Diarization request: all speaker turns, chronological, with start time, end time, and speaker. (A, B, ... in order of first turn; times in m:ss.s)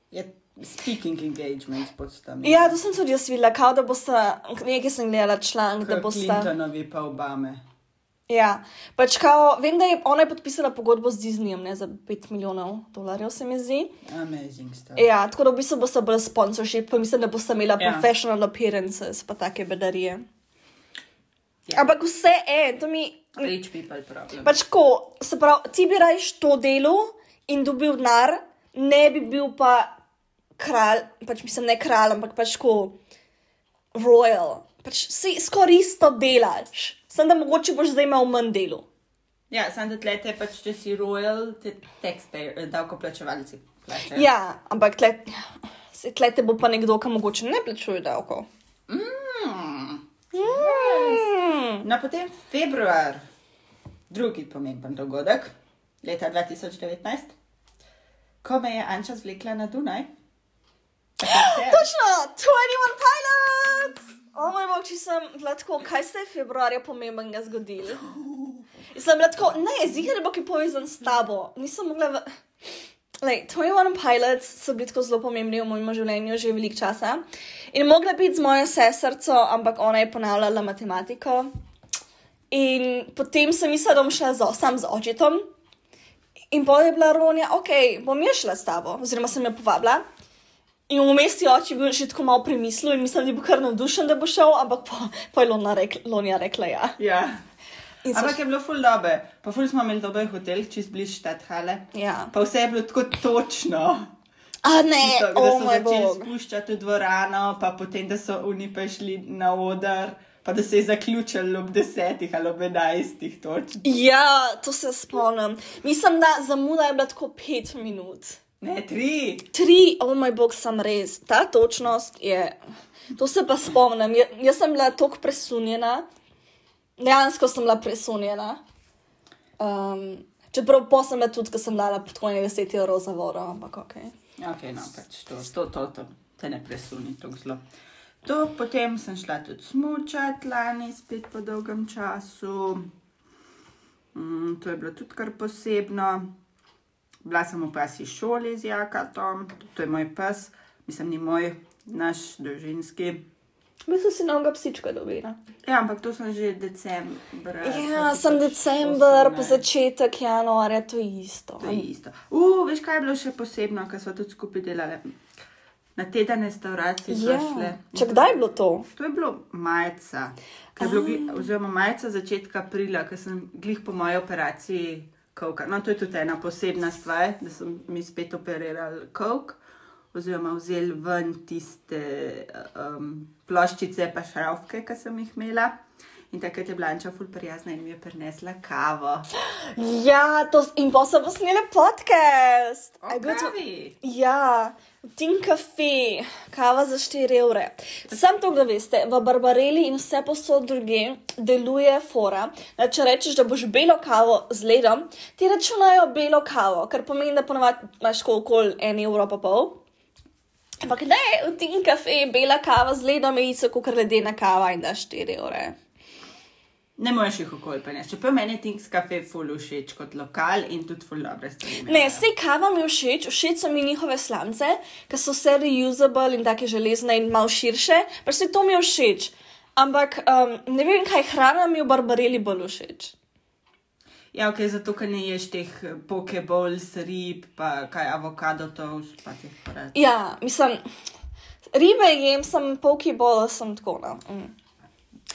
0:00.1-0:02.8 A
0:02.4-0:06.5 B
0:05.8-0:07.6 A
0:08.3-0:13.9 B
0:14.0-0:15.1 A
0:15.0-0:20.2 B
0:17.8-0:18.1 A
0:21.7-0:23.5 B
0:23.4-0:24.6 A
0:24.4-0:29.9 B
0:30.6-0:33.0 B
0:34.0-0:38.9 B
0:39.5-0:44.3 A
0:44.1-0:45.3 B
0:45.9-0:48.5 B
0:48.9-0:53.2 A
0:50.4-0:51.8 B
0:54.1-0:57.3 A
0:58.4-1:00.1 A
1:01.2-1:01.9 A
1:01.2-1:08.0 B
1:08.2-1:08.5 A
1:08.9-1:12.2 B
1:13.2-1:21.5 B
1:22.5-1:25.4 B
1:26.5-1:30.0 B
1:30.9-1:37.0 B
1:37.0-1:37.4 A
1:38.0-1:38.4 B
1:38.1-1:44.1 A
1:41.9-1:42.3 B
1:44.6-1:46.3 B
1:45.0-1:53.8 A
1:53.8-1:58.4 B
1:58.6-1:59.5 A
1:59.5-2:02.6 B
2:03.2-2:06.0 B
2:07.0-2:08.6 B
2:09.6-2:14.1 B
2:14.4-2:17.6 A
2:18.2-2:22.9 A
2:24.1-2:26.3 A
2:27.2-2:33.3 A
2:33.9-2:35.4 B
2:35.6-2:39.6 A
2:37.6-2:41.8 B
2:41.6-2:45.1 A
2:46.0-2:59.6 A
2:47.1-2:48.9 B
2:50.8-2:51.5 B
3:00.1-3:05.8 A
3:06.3-3:09.3 A
3:09.4-3:29.8 B
3:13.0-3:14.0 A
3:30.8-3:35.8 B
3:37.0-3:42.3 A
3:41.8-3:53.1 B
3:54.3-4:00.0 A
3:59.9-4:00.8 B
4:01.7-4:04.5 B